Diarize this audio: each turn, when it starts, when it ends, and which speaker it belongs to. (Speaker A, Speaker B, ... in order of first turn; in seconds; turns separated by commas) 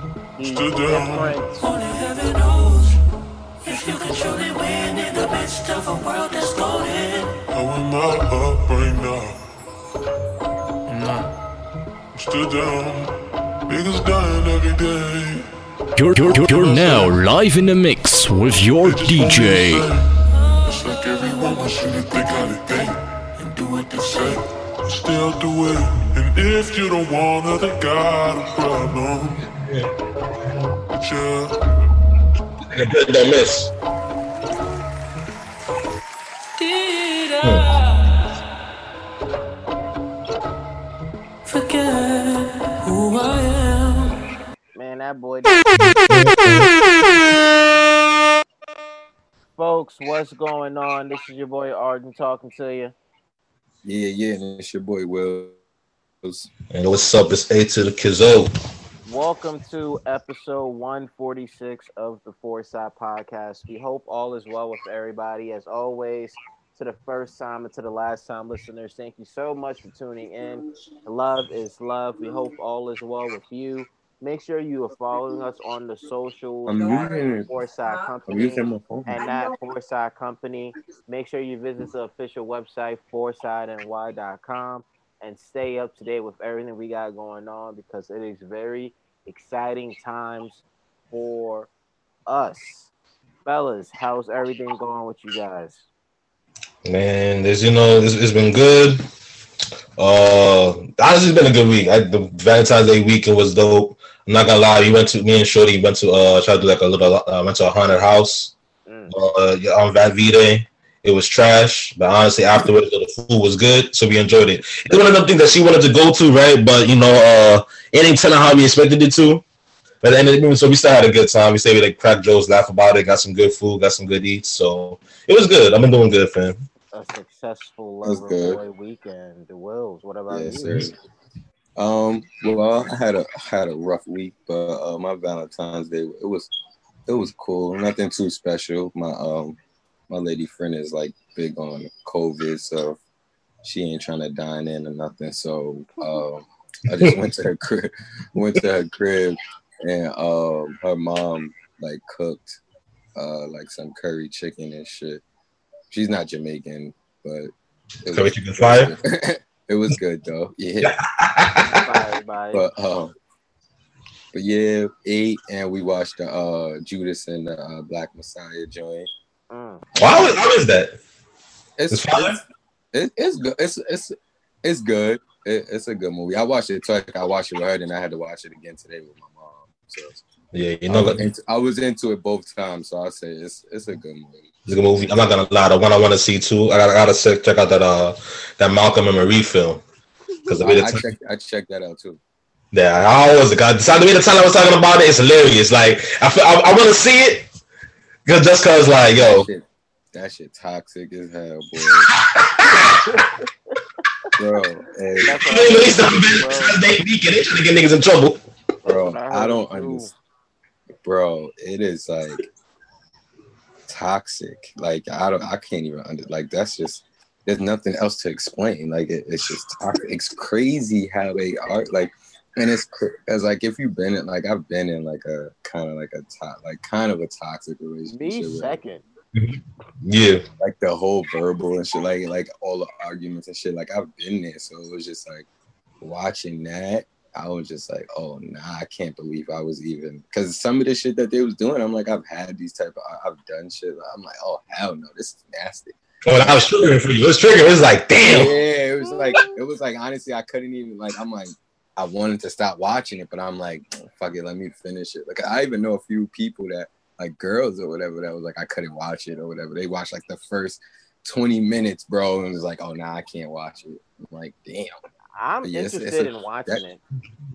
Speaker A: 0.4-1.6, Speaker B: 0.4-1.6, Speaker C: 1.6-3.0, Speaker C: 3.6-7.4, Speaker B: 7.5-9.4, Speaker B: 10.9-11.3, Speaker B: 12.1-13.1, Speaker B: 13.7-15.5, Speaker D: 15.9-19.9, Speaker B: 16.2-17.2, Speaker B: 18.8-29.5, Speaker C: 21.1-22.5, Speaker C: 23.6-24.4, Speaker B: 30.9-31.7, Speaker E: 32.7-33.7, Speaker C: 36.6-38.0, Speaker E: 37.4-37.7, Speaker C: 41.5-44.1, Speaker A: 44.7-45.6, Speaker E: 45.8-46.7, Speaker A: 49.6-52.9, Speaker F: 53.8-55.6, Speaker F: 56.2-56.5, Speaker E: 56.7-58.5, Speaker A: 59.0-91.7, Speaker F: 76.7-77.5, Speaker F: 78.3-79.3, Speaker A: 92.3-92.9, Speaker A: 93.4-95.9, Speaker E: 96.8-99.0, Speaker E: 100.0-108.5, Speaker A: 108.8-109.1, Speaker E: 109.1-119.4, Speaker E: 120.0-126.5, Speaker A: 126.9-130.8, Speaker F: 128.0-128.6, Speaker F: 130.3-130.9, Speaker F: 131.8-136.5, Speaker F: 137.1-143.0, Speaker F: 143.6-152.6, Speaker F: 153.1-155.2, Speaker F: 155.9-157.5, Speaker F: 158.0-160.9, Speaker E: 158.1-158.9, Speaker E: 160.8-162.0, Speaker A: 161.7-162.6, Speaker F: 162.5-163.1, Speaker F: 164.3-169.1, Speaker A: 169.5-169.8, Speaker E: 170.0-170.9, Speaker F: 170.0-170.3, Speaker F: 171.8-172.4, Speaker E: 171.9-172.4, Speaker F: 172.9-180.2, Speaker E: 180.5-181.2, Speaker F: 180.9-184.5, Speaker E: 184.7-189.8, Speaker E: 190.5-191.0, Speaker F: 190.6-192.2, Speaker E: 192.7-197.5, Speaker E: 198.2-199.5, Speaker F: 199.2-202.1, Speaker E: 202.1-203.0, Speaker A: 203.0-203.7, Speaker F: 204.4-205.4, Speaker A: 205.2-206.8, Speaker E: 205.4-208.4, Speaker F: 208.8-210.1, Speaker A: 208.9-210.1, Speaker F: 211.0-212.5, Speaker F: 213.9-228.8, Speaker A: 228.1-229.0, Speaker E: 229.3-230.4, Speaker F: 230.6-235.4, Speaker F: 236.0-245.9, Speaker E: 246.2-248.5, Speaker F: 248.2-265.0, Speaker A: 249.0-249.5, Speaker A: 265.4-267.0, Speaker F: 265.6-266.8